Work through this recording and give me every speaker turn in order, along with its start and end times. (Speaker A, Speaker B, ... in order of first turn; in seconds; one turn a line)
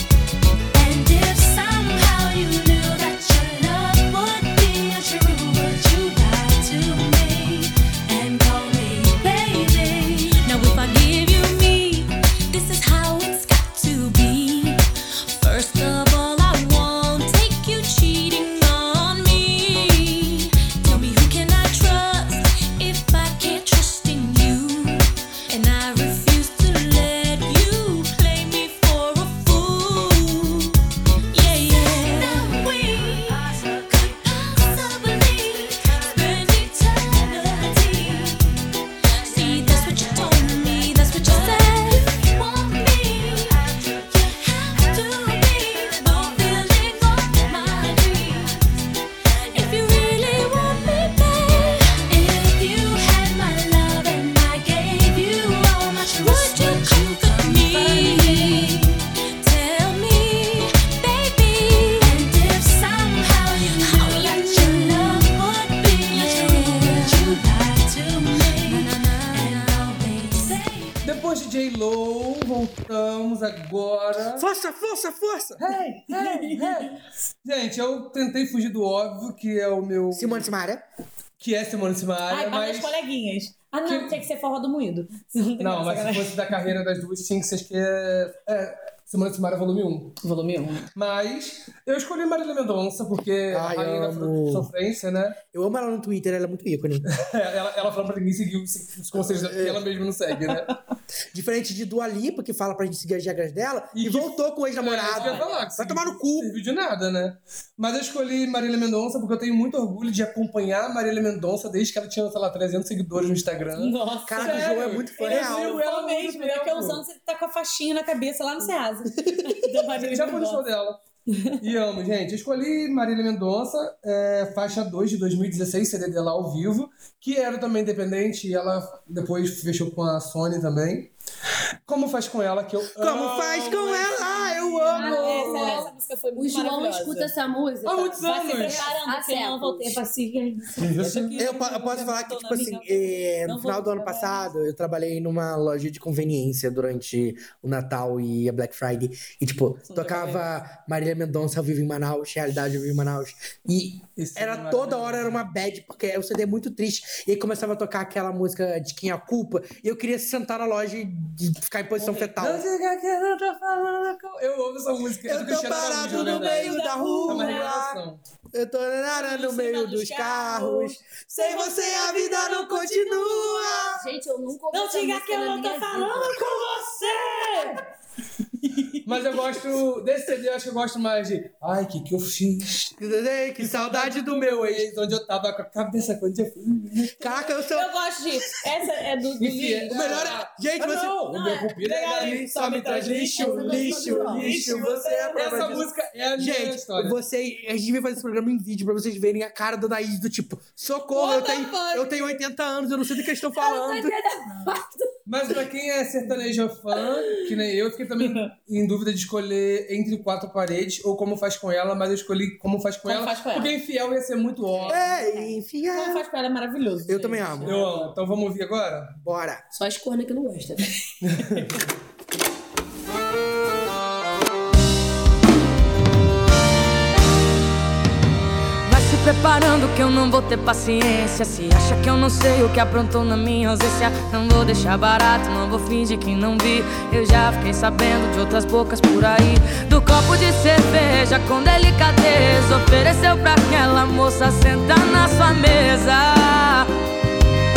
Speaker A: 0.7-30.8
Speaker A: 31.3-38.5
Speaker A: 39.2-48.6
Speaker A: 49.5-71.0
Speaker B: 71.0-74.4
Speaker C: 74.3-75.7
Speaker B: 75.6-80.5
Speaker D: 76.1-76.7
Speaker C: 80.1-80.8
Speaker B: 81.4-83.0
Speaker D: 82.3-86.4
Speaker B: 83.8-84.2
Speaker B: 85.6-90.2
Speaker D: 90.2-90.9
Speaker B: 90.9-95.4
Speaker C: 93.5-94.7
Speaker C: 95.5-97.1
Speaker B: 97.1-100.7
Speaker C: 99.1-99.8
Speaker C: 101.3-106.5
Speaker B: 103.9-117.0
Speaker D: 105.1-105.7
Speaker D: 113.8-120.6
Speaker C: 114.2-115.8
Speaker C: 119.2-119.6
Speaker B: 119.9-121.0
Speaker D: 121.3-121.6
Speaker B: 121.6-131.1
Speaker B: 131.8-135.9
Speaker C: 133.0-135.8
Speaker D: 134.9-137.3
Speaker E: 135.2-140.0
Speaker B: 137.8-138.9
Speaker D: 138.2-144.5
Speaker B: 140.8-141.5
Speaker C: 141.4-162.7
Speaker D: 149.9-150.5
Speaker B: 154.2-155.4
Speaker B: 162.0-168.2
Speaker C: 165.2-168.0
Speaker D: 165.8-167.8
Speaker C: 168.5-174.1
Speaker D: 169.1-173.8
Speaker E: 173.9-176.4
Speaker D: 174.7-177.8
Speaker D: 178.6-179.5
Speaker B: 179.0-182.9
Speaker C: 183.0-184.9
Speaker B: 183.6-187.1
Speaker C: 187.2-187.9
Speaker D: 187.2-195.8
Speaker B: 189.4-197.2
Speaker C: 189.9-191.2
Speaker C: 192.2-204.2
Speaker D: 201.1-202.4
Speaker E: 203.6-205.1
Speaker B: 205.3-215.0
Speaker D: 208.2-208.5
Speaker D: 213.0-213.8
Speaker D: 214.7-218.1
Speaker C: 214.9-216.3
Speaker C: 217.1-217.8
Speaker B: 217.6-219.2
Speaker C: 219.2-219.6
Speaker E: 219.7-220.8
Speaker B: 221.2-221.8
Speaker F: 228.8-246.9